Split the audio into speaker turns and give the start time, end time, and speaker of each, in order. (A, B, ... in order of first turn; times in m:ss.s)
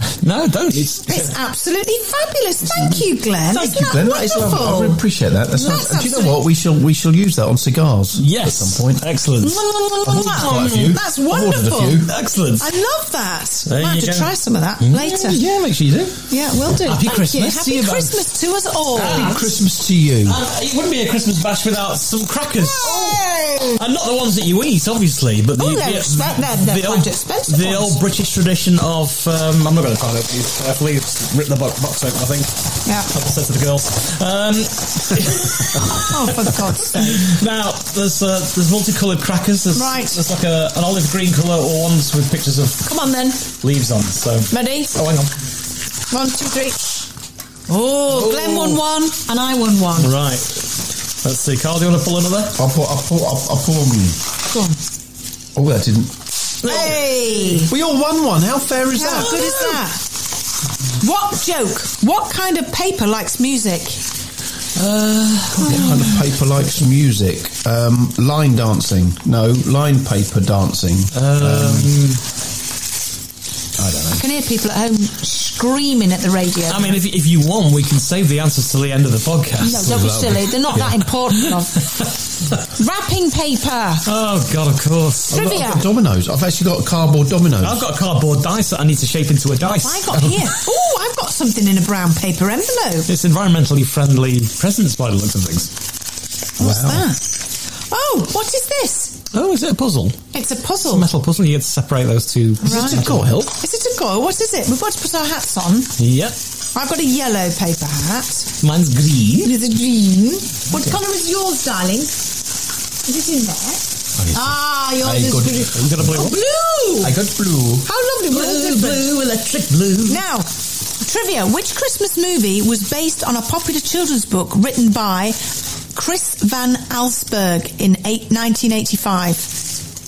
0:00.2-0:01.4 A
0:01.0-0:06.4 B
0:03.5-0:09.1 C
0:08.2-0:11.0 A
0:09.4-0:12.0 B
0:10.0-0:12.1 C
0:12.0-0:12.7 A
0:12.6-0:15.4 B
0:13.6-0:16.2 A
0:16.3-0:19.4 B
0:16.8-0:18.2 A
0:18.9-0:19.5 A
0:19.0-0:20.4 C
0:20.2-0:23.2 A
0:22.6-0:23.8 B
0:23.7-0:42.9 A
0:25.6-0:28.0 B
0:32.8-0:33.1 B
0:35.9-0:37.3 B
0:39.7-0:40.2 B
0:42.8-0:43.4 B
0:43.5-0:45.3 A
0:44.5-0:44.9 B
0:46.1-0:46.9 B
0:47.7-0:50.1 B
0:48.1-0:48.8 A
0:50.0-0:52.6 A
0:52.5-0:54.2 C
0:54.5-0:54.8 B
0:55.5-0:56.2 C
0:56.6-0:57.6 A
0:56.6-0:57.7 B
0:57.6-0:59.7 C
0:58.9-1:00.0 B
1:01.0-1:04.0 B
1:04.8-1:06.2 A
1:05.6-1:11.9 C
1:11.1-1:12.2 A
1:13.8-1:14.2 C
1:14.2-1:17.0 B
1:16.7-1:20.0 A
1:19.6-1:21.9 B
1:19.8-1:20.4 C
1:22.7-1:24.0 B
1:24.0-1:25.4 A
1:25.3-1:25.8 B
1:25.3-1:27.8 C
1:27.6-1:30.6 A
1:29.7-1:33.1 B
1:33.1-1:35.7 A
1:36.6-1:37.4 B
1:36.6-1:37.0 C
1:37.9-1:39.2 B
1:39.3-1:40.2 A
1:40.3-1:41.0 B
1:40.8-1:43.5 A
1:42.6-1:45.9 B
1:42.7-1:43.5 C
1:46.0-1:46.4 A
1:46.7-1:48.5 B
1:48.6-1:49.6 A
1:49.4-1:52.1 B
1:53.0-1:57.1 B
1:54.2-1:54.5 A
1:55.0-1:56.3 C
1:55.7-1:56.4 A
1:57.0-1:57.9 C
1:57.8-1:59.2 B
1:58.3-2:00.2 A
2:00.0-2:00.5 B
2:01.0-2:05.4 B
2:05.9-2:09.6 B